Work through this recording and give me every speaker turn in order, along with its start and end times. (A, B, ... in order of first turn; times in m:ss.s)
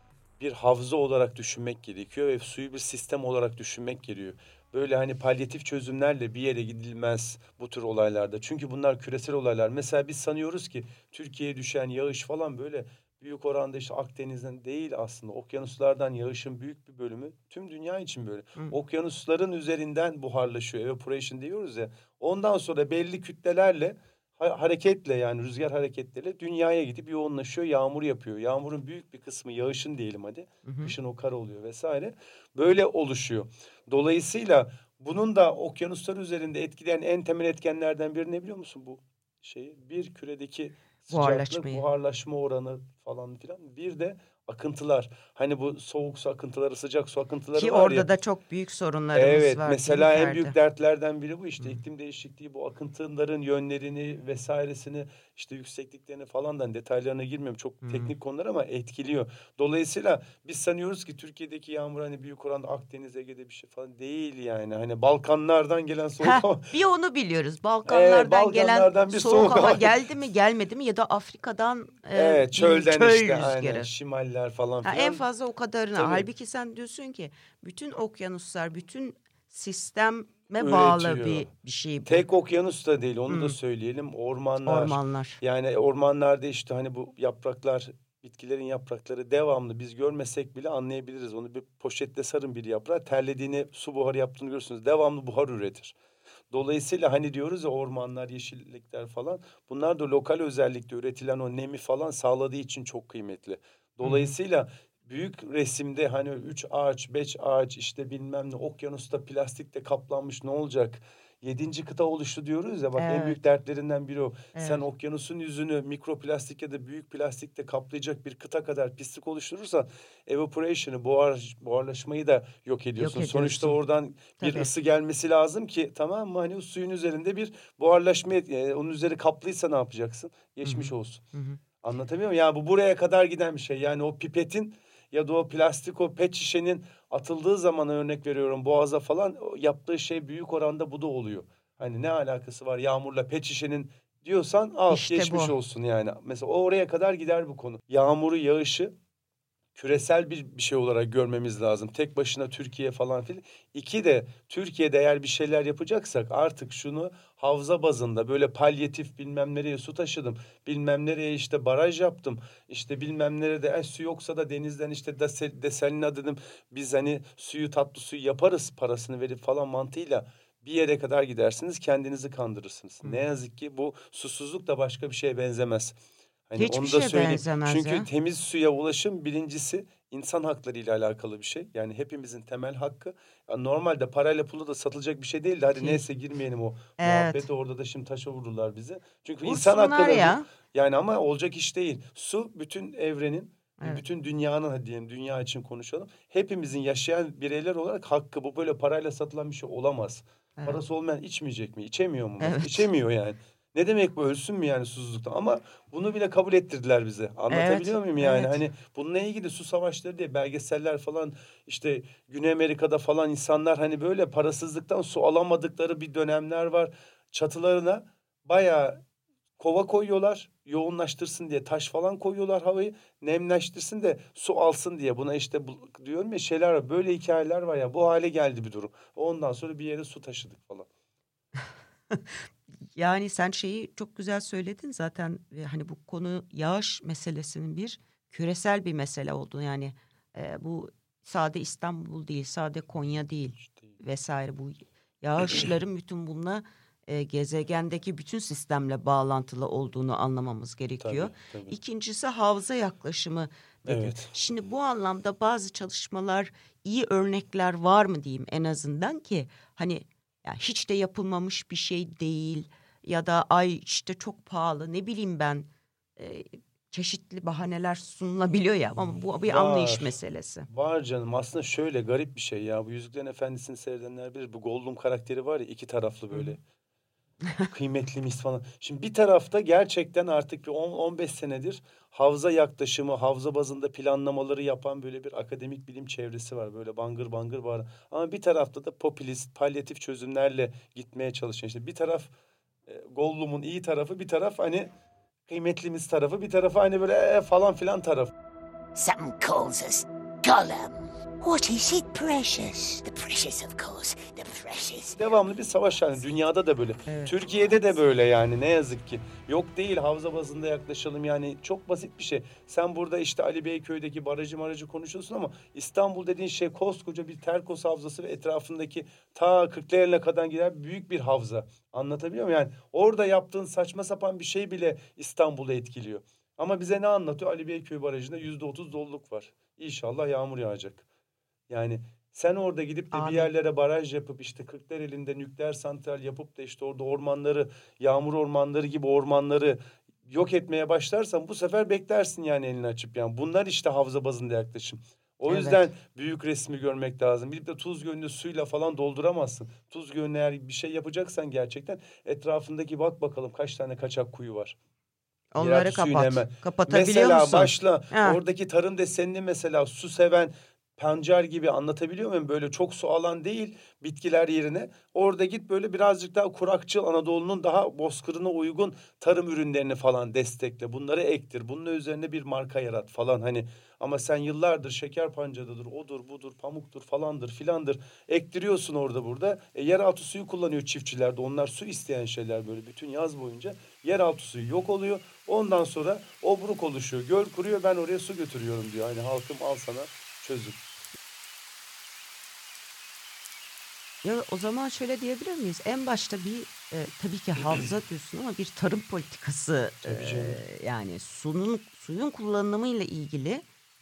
0:00.4-0:48.1 A
0:30.6-0:30.9 B
0:41.1-0:41.8 B
0:47.5-0:50.5 B
0:49.1-1:06.7 A
0:57.8-0:58.1 B
1:06.2-1:13.9 B
1:07.8-1:10.0 A
1:12.1-1:15.2 A
1:14.8-1:22.2 B
1:15.9-1:16.3 A
1:20.6-1:21.5 A
1:22.0-1:36.0 A
1:23.3-1:23.5 B
1:24.6-1:25.4 B
1:36.5-2:11.2 A
1:44.0-1:44.3 B
1:53.0-1:53.4 B
1:54.5-1:54.8 B
2:03.0-2:03.8 B
2:04.4-2:04.7 B
2:10.6-2:11.6 B
2:11.8-2:28.9 A
2:24.9-2:25.6 B
2:29.7-2:56.0 A
2:56.5-3:39.0 A
2:56.6-2:58.1 B
3:05.7-3:06.0 B
3:07.0-3:07.5 B
3:09.4-3:10.4 B
3:22.4-3:22.9 B
3:27.5-3:28.6 B
3:39.6-3:50.9 A
3:52.1-3:52.4 B
3:52.9-4:30.7 B
4:03.6-4:04.0 A
4:11.0-4:11.7 A
4:13.8-4:14.3 A
4:29.4-4:30.1 A
4:30.7-4:36.6 A
4:37.7-4:52.3 A
4:52.8-4:54.9 A
4:55.5-4:58.3 A
4:58.9-5:05.2 C
5:05.1-5:31.0 A
5:07.1-5:07.4 B
5:31.7-5:54.8 A
5:33.1-5:33.5 B
5:45.4-5:45.9 B
5:55.5-5:58.4 B
5:55.6-6:30.8 A
6:34.2-6:43.6 B
6:40.0-6:40.6 A